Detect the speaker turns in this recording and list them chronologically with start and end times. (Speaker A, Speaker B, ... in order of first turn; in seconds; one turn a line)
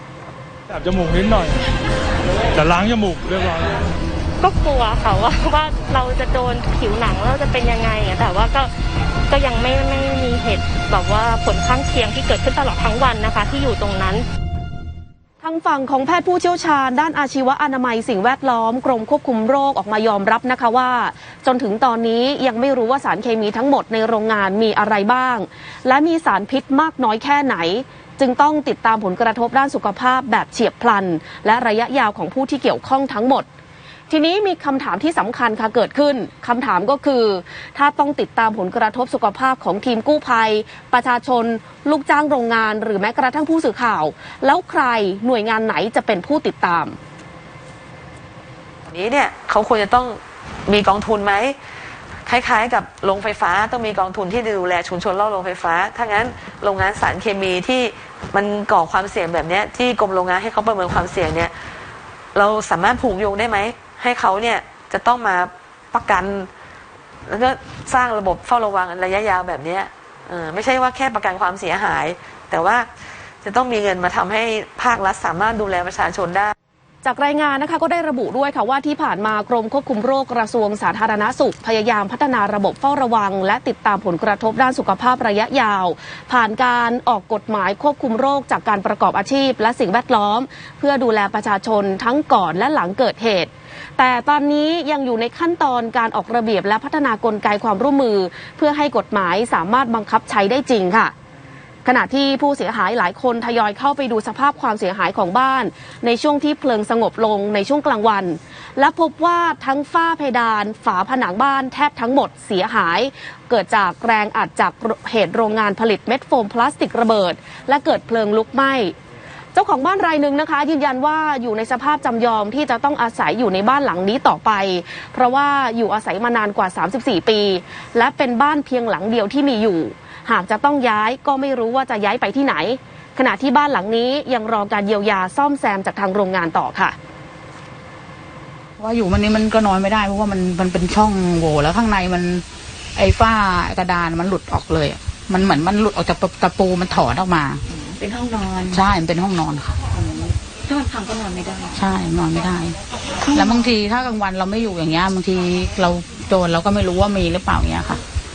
Speaker A: 0.7-1.5
Speaker A: 2.5-3.8
Speaker B: 4.4-8.7
Speaker B: 9.3-14.2
Speaker C: 15.4-33.5
Speaker C: 34.1-47.0
Speaker D: 48.9-51.6
Speaker D: 52.3-61.5
Speaker D: 62.3-66.5
Speaker D: 67.3-72.9
Speaker D: 73.4-76.5
Speaker C: 77.0-101.1
Speaker C: 101.8-118.9
Speaker C: 119.5-137.0
Speaker E: 138.8-147.6
Speaker F: 147.7-148.8
Speaker E: 148.7-149.8
Speaker F: 149.9-151.8
Speaker E: 151.8-152.8
Speaker F: 153.2-153.8
Speaker E: 153.3-158.0